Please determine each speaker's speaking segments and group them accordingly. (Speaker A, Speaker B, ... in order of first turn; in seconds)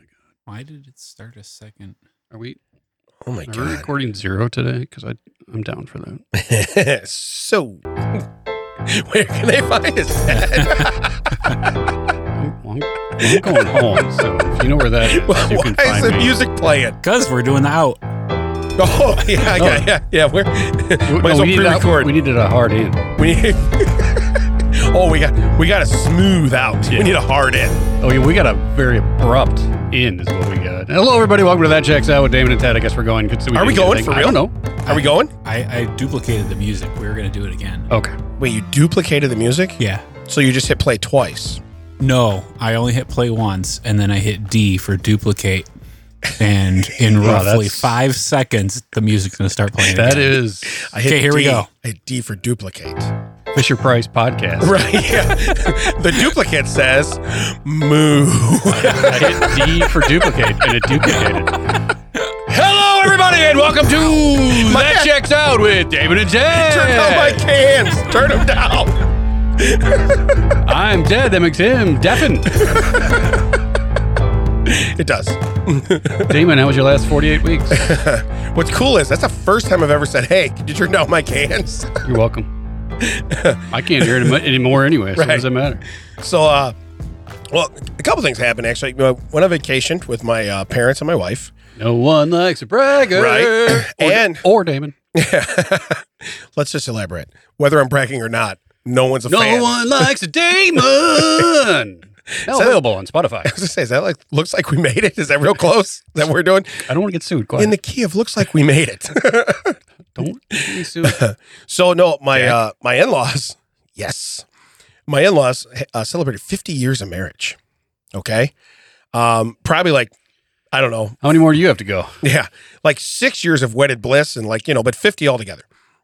Speaker A: 0.5-2.0, 10.5-10.9, 17.0-18.0, 34.9-37.9, 39.8-40.1, 42.0-45.7, 46.4-50.4, 51.0-51.7
Speaker B: 2.3-2.6, 3.5-6.2, 12.3-16.4, 19.5-19.9, 21.1-23.1, 28.0-34.5, 37.9-38.2, 47.2-47.9, 49.9-50.8, 53.5-55.3, 59.0-61.8, 62.5-67.4, 70.6-72.9, 76.3-77.9, 82.0-82.5, 83.7-85.8, 91.8-94.9, 99.3-103.5, 106.9-107.8, 110.2-111.2, 121.2-122.2
Speaker C: 3.2-3.9, 6.3-8.3, 8.9-11.8, 13.2-13.5, 15.0-17.0, 18.8-22.1, 23.2-27.8, 33.5-35.3, 38.4-41.6, 46.9-47.4, 50.6-53.1, 54.6-59.9, 64.5-65.1, 66.5-69.1, 69.6-70.2, 72.5-73.4, 74.7-76.4, 77.7-82.0, 83.0-84.4, 85.2-85.5, 86.2-86.7, 87.5-91.5, 93.1-94.4, 95.1-100.1, 102.4-102.8, 103.4-106.9, 107.6-109.8, 110.5-114.5, 115.1-117.6, 118.2-118.5, 119.1-120.1, 120.7-121.2, 122.2-125.7